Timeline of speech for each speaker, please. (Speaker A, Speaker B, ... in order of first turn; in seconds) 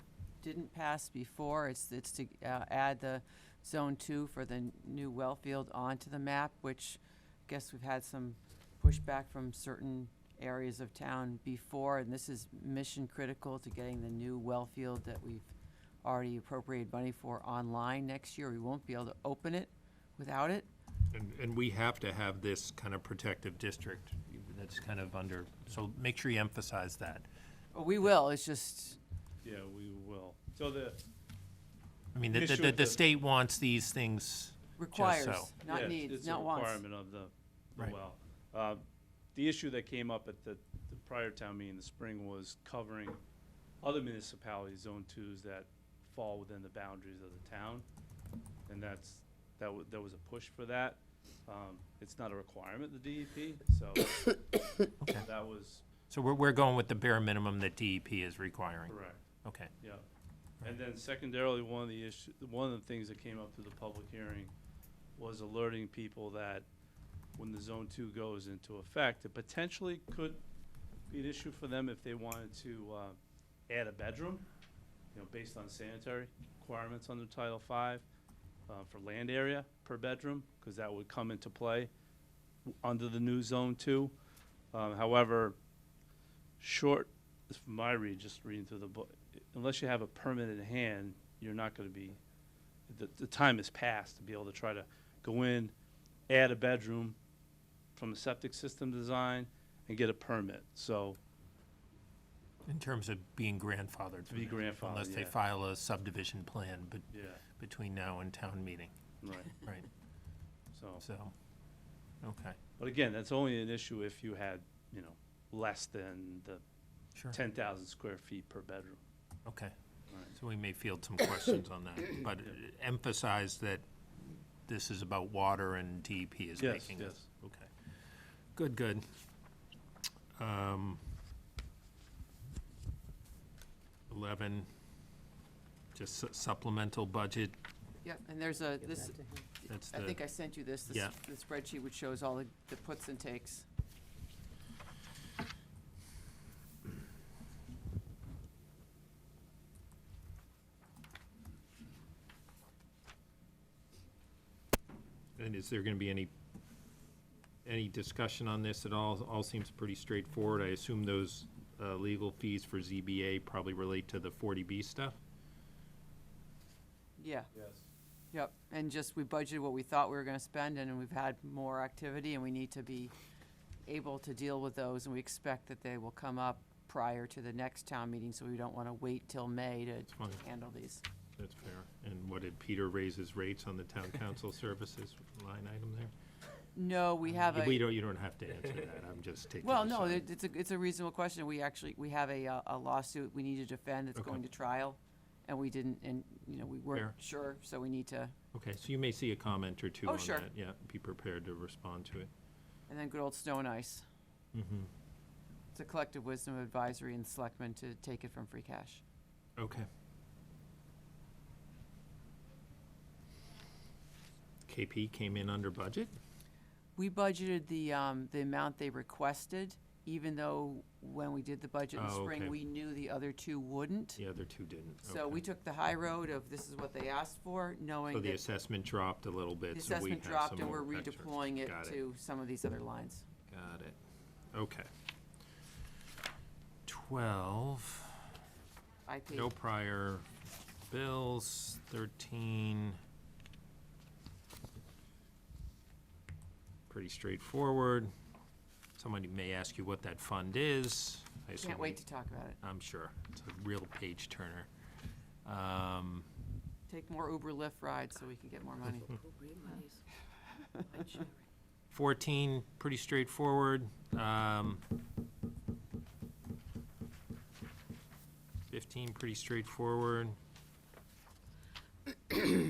Speaker A: 0.4-15.5, 16.0-20.7, 27.7-29.0, 34.8-36.8, 138.0-139.2, 139.9-143.7, 167.2-167.5, 168.3-173.1, 173.9-181.0, 186.8-187.8, 189.6-198.3, 200.0-200.5, 202.9-204.1, 205.7-209.0, 217.0-224.2, 225.1-228.4, 229.7-233.3, 239.1-239.5, 251.6-252.6, 256.9-259.9, 260.7-261.3
Speaker B: 21.1-27.3, 32.1-35.5, 55.0-55.3, 56.1-59.7, 102.7-109.0, 109.5-109.9, 111.0-111.3, 112.2-112.6, 119.5-119.7, 120.3-127.7, 128.6-129.1, 130.4-131.1, 134.1-134.7, 135.9-137.6, 139.7-140.2, 140.8-141.2, 155.4-156.3, 157.7-165.2, 180.1-180.4, 181.4-186.1, 187.2-190.3, 194.2-194.4, 198.5-202.3, 204.5-204.9, 209.6-209.9, 214.7-216.1, 221.9-222.6, 224.2-225.4, 228.1-232.0, 233.5-234.0, 234.5-234.9, 236.9-238.3, 239.3-240.3, 240.8-243.0, 246.9-248.1, 249.0-252.0, 252.6-254.7, 255.4-256.3, 261.9-264.8, 268.7-270.4
Speaker C: 29.4-31.0, 32.3-33.0, 35.7-43.2, 43.8-47.9, 48.7-54.4, 55.2-55.8, 58.9-59.2, 59.8-60.1, 60.6-64.5, 65.2-66.7, 67.4-70.4, 71.1-74.5, 75.1-78.0, 78.7-81.9, 82.7-84.2, 84.7-85.6, 86.6-92.2, 92.9-95.7, 96.3-97.2, 98.0-101.2, 104.3-105.4, 107.1-107.4, 109.2-109.6, 110.7-111.0, 112.8-116.6, 117.3-119.0, 120.1-120.4, 126.6-127.3, 167.5-167.9